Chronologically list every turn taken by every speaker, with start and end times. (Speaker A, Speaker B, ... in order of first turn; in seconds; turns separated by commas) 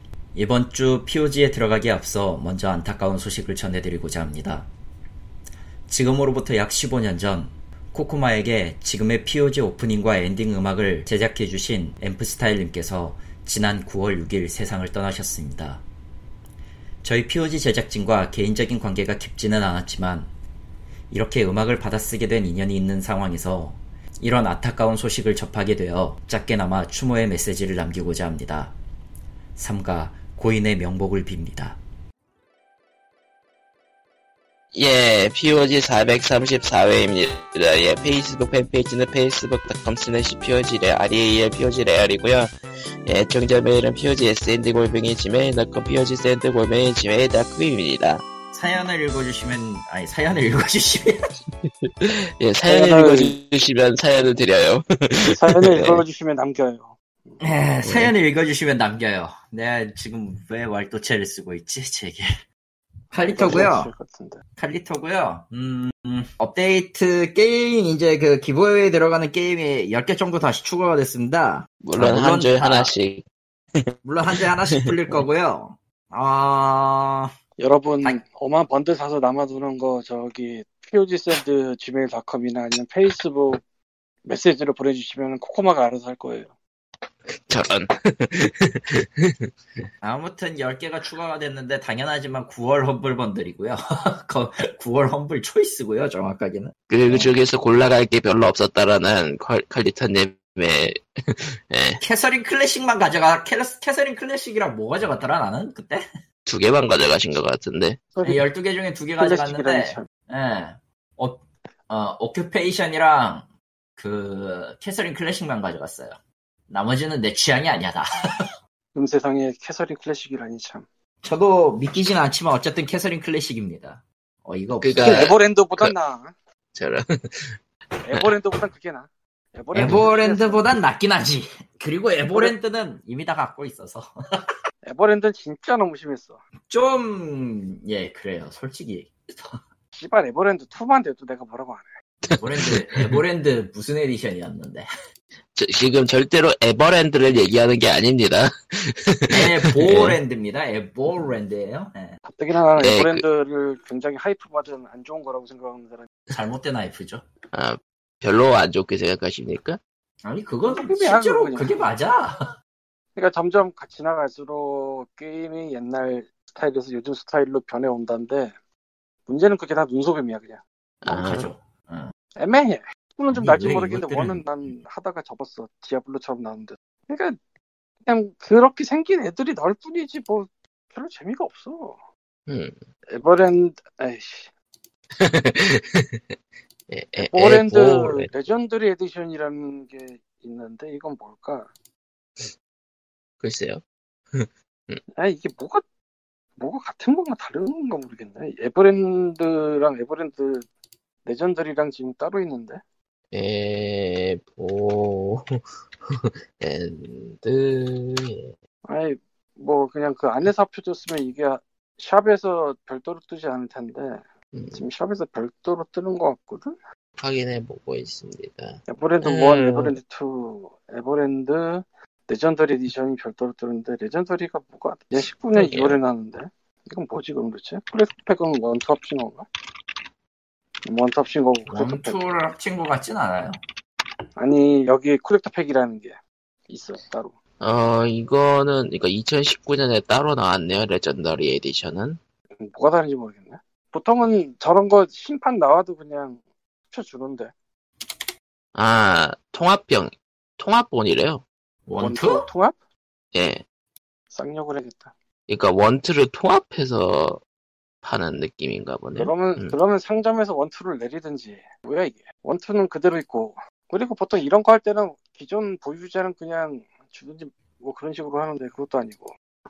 Speaker A: 0.3-4.7, Speaker A: 5.9-15.8, Speaker A: 17.0-20.3, Speaker A: 21.1-28.8, Speaker A: 29.6-31.8, Speaker B: 34.7-42.5, Speaker B: 43.0-48.2, Speaker A: 48.5-51.2, Speaker B: 51.6-56.0, Speaker C: 52.7-53.4, Speaker C: 55.2-57.5, Speaker A: 57.4-62.3, Speaker B: 57.8-58.1, Speaker A: 63.1-63.9, Speaker C: 63.2-64.4, Speaker A: 64.6-72.9, Speaker B: 71.8-73.2, Speaker B: 73.8-74.4, Speaker A: 74.0-77.3, Speaker C: 77.6-83.6, Speaker C: 84.2-86.5, Speaker B: 87.3-89.8, Speaker A: 90.0-97.3, Speaker B: 96.9-102.0, Speaker A: 102.0-106.0, Speaker B: 106.5-108.0, Speaker C: 108.1-108.4, Speaker A: 108.2-116.2, Speaker C: 109.2-110.1, Speaker A: 116.7-118.1, Speaker C: 118.9-120.8, Speaker A: 121.2-125.3, Speaker B: 124.8-125.9, Speaker C: 125.0-126.3, Speaker B: 126.7-128.3, Speaker C: 128.0-130.7, Speaker A: 129.7-134.4, Speaker C: 134.8-136.4, Speaker A: 136.7-139.6, Speaker C: 139.9-141.9, Speaker B: 142.2-143.2, Speaker A: 142.4-144.9, Speaker B: 145.5-150.2, Speaker A: 149.3-152.2, Speaker C: 152.2-156.1, Speaker B: 152.8-153.2, Speaker A: 156.3-157.2, Speaker B: 157.5-159.8, Speaker A: 160.2-162.4, Speaker C: 160.7-161.8, Speaker C: 163.1-168.5, Speaker C: 169.3-170.6, Speaker B: 171.0-171.5, Speaker A: 171.1-172.1, Speaker C: 172.4-177.4, Speaker A: 173.3-174.7, Speaker C: 178.1-182.0, Speaker B: 182.5-182.7, Speaker C: 183.1-184.5, Speaker B: 185.2-186.3, Speaker B: 186.9-188.3, Speaker C: 187.2-191.7, Speaker B: 193.4-193.8, Speaker B: 194.3-195.0, Speaker C: 195.2-195.8, Speaker C: 196.6-200.7, Speaker C: 201.2-202.8, Speaker B: 203.3-208.5, Speaker C: 208.8-214.2, Speaker B: 214.5-214.8, Speaker C: 214.7-216.7, Speaker B: 217.2-219.9, Speaker C: 218.9-229.5, Speaker B: 225.6-225.9, Speaker C: 230.8-232.4, Speaker A: 231.7-233.6, Speaker C: 234.3-236.2, Speaker C: 236.7-237.3, Speaker B: 237.6-242.2, Speaker C: 242.6-247.5, Speaker B: 248.7-251.4, Speaker A: 251.9-252.5, Speaker C: 251.9-252.8, Speaker B: 253.3-253.6, Speaker C: 254.3-255.1, Speaker B: 255.5-257.4, Speaker B: 258.0-259.7, Speaker C: 259.1-269.3